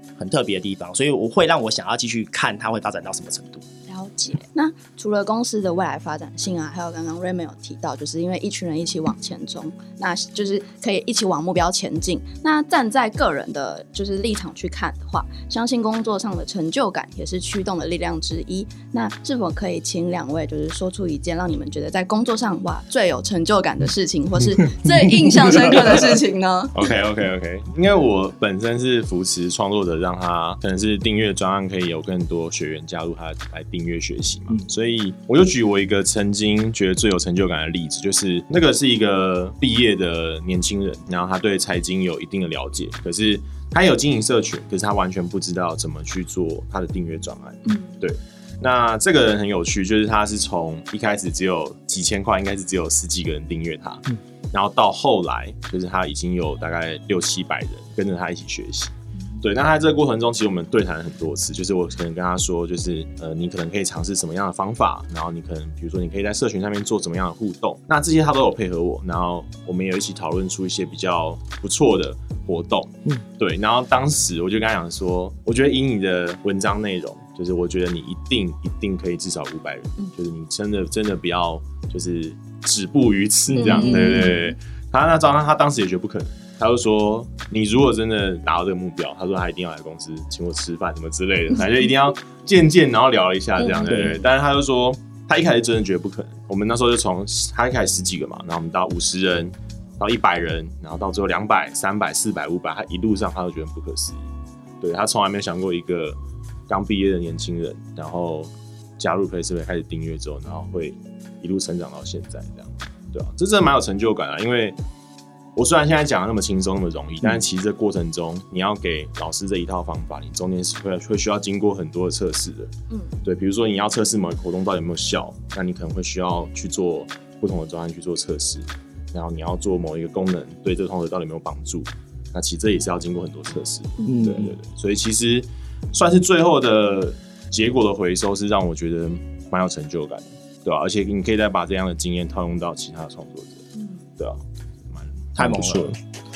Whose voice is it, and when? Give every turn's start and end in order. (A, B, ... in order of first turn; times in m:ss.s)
0:00.2-0:03.7 A
0:03.9-0:26.7 B
0:26.7-1:44.3 C
0:47.7-0:48.0 B
1:23.5-1:24.3 A
1:23.6-1:24.4 B
1:33.6-1:33.8 B
1:33.8-1:34.2 A
1:44.8-1:46.2 C
1:46.7-1:54.8 C
1:55.6-2:02.7 C
2:03.2-2:23.6 C
2:14.0-2:14.6 A
2:24.2-2:26.0 C
2:25.4-2:25.9 A